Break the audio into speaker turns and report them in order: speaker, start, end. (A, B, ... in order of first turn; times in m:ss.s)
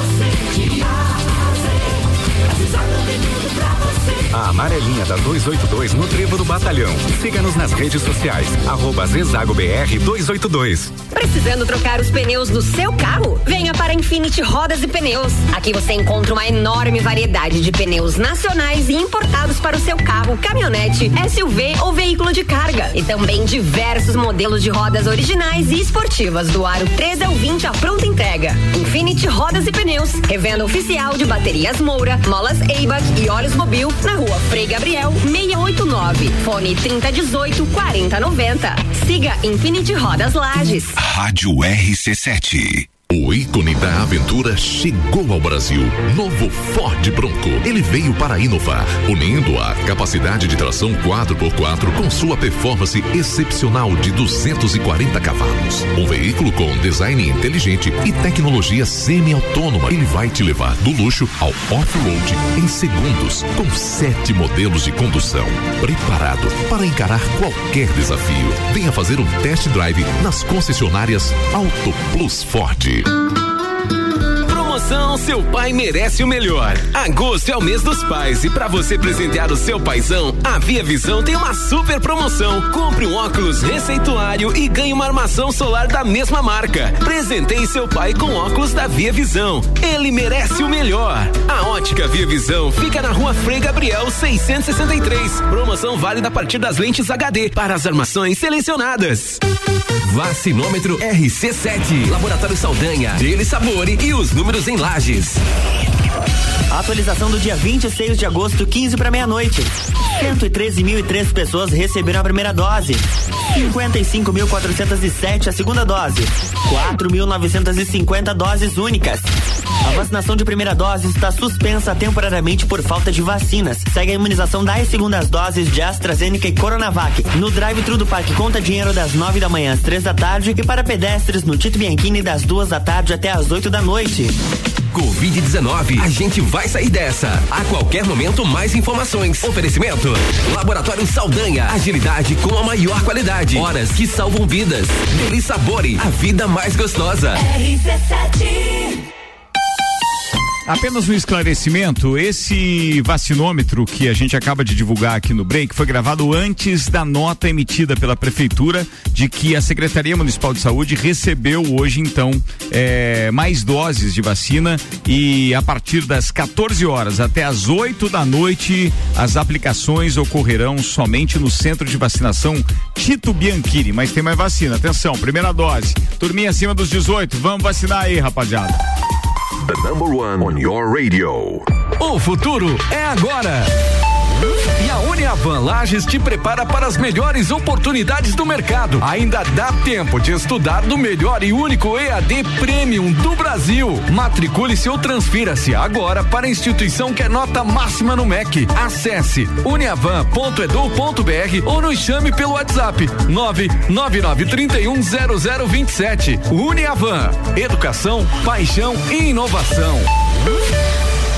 0:04.3-0:10.8 A
0:11.1-0:41.0 B
0:41.0-1:13.1 C
1:14.4-1:39.4 D
1:40.0-1:45.4 D
1:46.7-1:59.3 E
1:59.8-2:14.4 E
2:14.9-2:27.4 D
2:30.6-2:58.8 F
2:59.7-3:01.6 C
3:02.0-3:03.7 G
3:04.8-3:30.1 G